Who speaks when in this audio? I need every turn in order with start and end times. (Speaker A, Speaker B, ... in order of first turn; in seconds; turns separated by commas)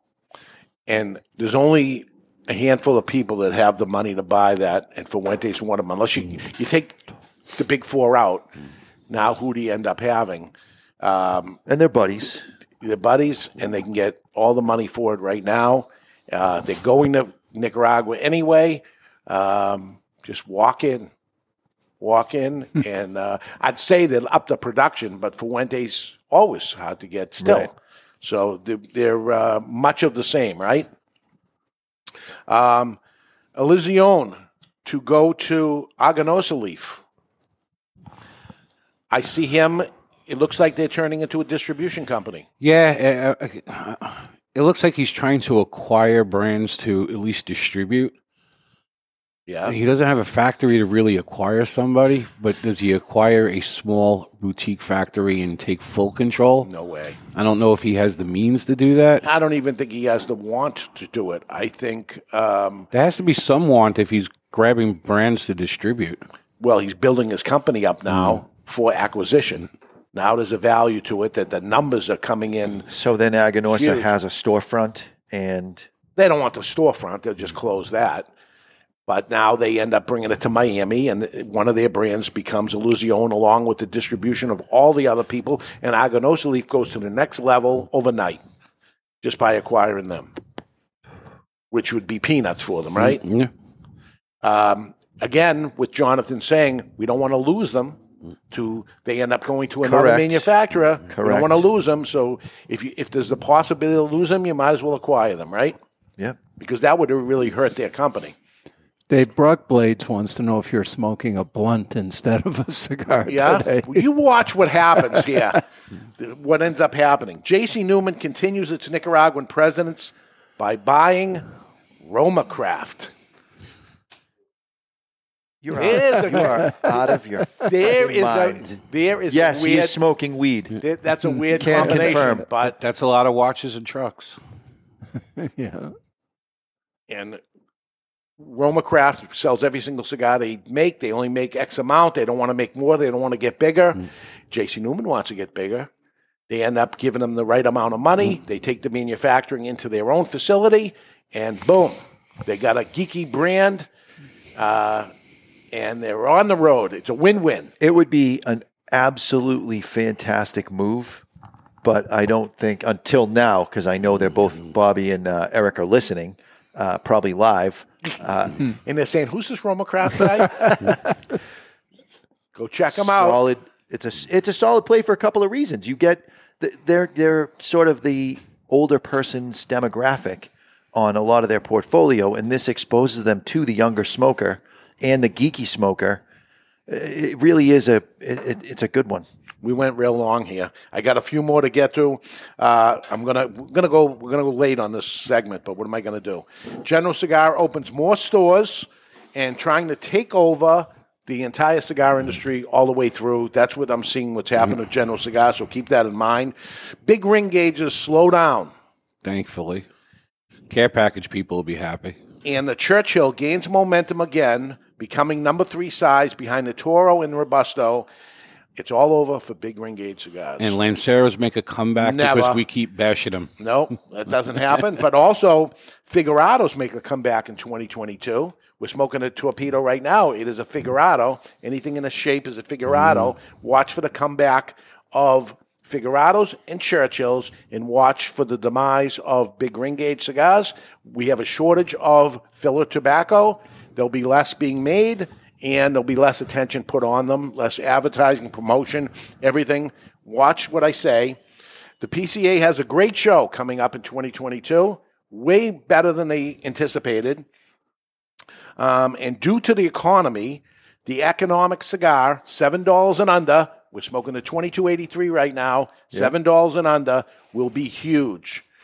Speaker A: 0.9-7.0, Speaker A: 7.5-8.5, Speaker A: 9.1-11.6, Speaker B: 11.7-12.4, Speaker A: 12.8-21.1, Speaker A: 22.0-30.9, Speaker B: 27.4-27.7, Speaker A: 32.5-33.0, Speaker A: 33.6-37.0, Speaker A: 39.1-42.5, Speaker C: 42.6-48.1, Speaker A: 49.5-49.8, Speaker C: 49.7-56.7, Speaker A: 56.6-57.2, Speaker C: 57.3-59.2, Speaker A: 59.2-62.9, Speaker C: 62.9-66.2, Speaker A: 66.6-72.9, Speaker C: 68.1-68.4, Speaker B: 72.9-75.9, Speaker A: 73.7-74.1, Speaker A: 76.2-78.3, Speaker A: 79.1-88.4, Speaker A: 89.2-90.3, Speaker A: 91.7-93.2, Speaker C: 93.0-93.5, Speaker A: 94.4-98.0, Speaker A: 98.5-105.8, Speaker B: 99.8-100.5, Speaker B: 101.1-101.7, Speaker A: 106.6-108.3, Speaker D: 109.1-114.0, Speaker A: 113.3-115.6, Speaker D: 115.2-115.5, Speaker A: 116.2-121.5, Speaker A: 122.0-123.1, Speaker B: 125.6-130.8, Speaker A: 125.8-126.7, Speaker A: 127.7-130.0, Speaker A: 130.8-132.8, Speaker B: 131.6-132.5, Speaker C: 132.8-134.4, Speaker D: 135.4-135.9, Speaker A: 137.1-137.4, Speaker A: 138.4-145.9, Speaker A: 146.5-153.9, Speaker A: 154.6-155.1, Speaker A: 155.7-157.7, Speaker B: 157.8-161.2, Speaker B: 161.8-168.6, Speaker A: 168.8-170.9, Speaker A: 172.6-173.4, Speaker B: 172.9-186.2, Speaker B: 186.9-189.2, Speaker A: 189.6-208.7, Speaker C: 209.2-209.9, Speaker C: 210.7-212.2, Speaker A: 212.4-218.1, Speaker A: 218.8-220.8, Speaker C: 220.6-223.5, Speaker A: 222.0-222.6, Speaker A: 223.6-251.4, Speaker A: 252.0-257.5, Speaker A: 258.8-268.6